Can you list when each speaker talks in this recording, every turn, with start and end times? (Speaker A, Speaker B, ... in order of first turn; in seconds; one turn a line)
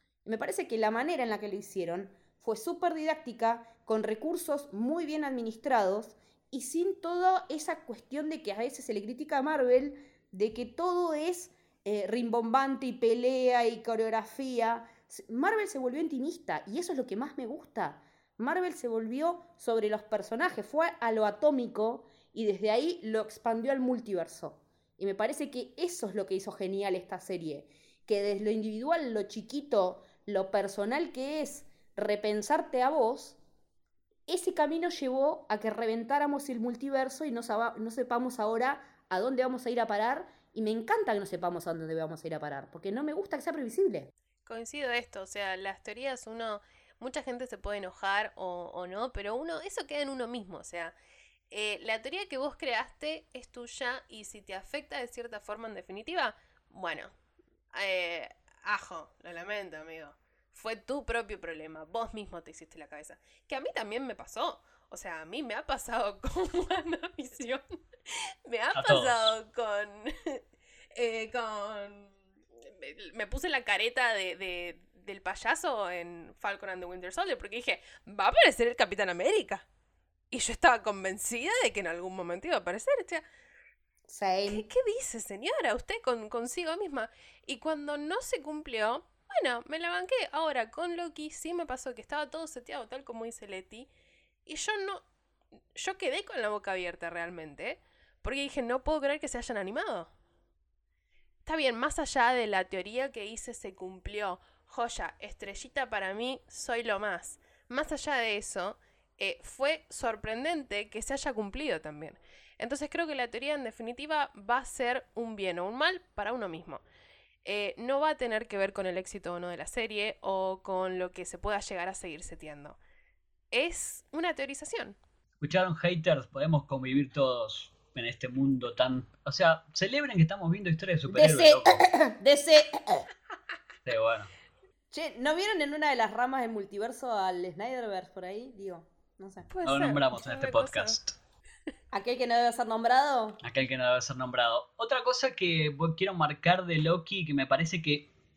Speaker A: 0.2-33.4
Speaker A: 34.3-44.1
Speaker B: 44.5-51.0
Speaker B: 51.5-57.1
Speaker B: 57.7-79.7
Speaker C: 68.7-69.3
Speaker B: 80.3-83.2
Speaker A: 84.1-84.7
Speaker B: 84.5-93.9
Speaker B: 94.5-95.0
Speaker B: 95.8-100.1
Speaker B: 101.5-116.8
Speaker B: 117.5-122.8
Speaker B: 123.5-125.0
Speaker C: 125.4-131.8
Speaker A: 131.1-133.0
Speaker C: 133.8-134.3
Speaker A: 134.9-139.5
Speaker B: 139.5-141.0
Speaker C: 139.7-141.2
Speaker A: 141.9-143.4
Speaker C: 143.4-148.1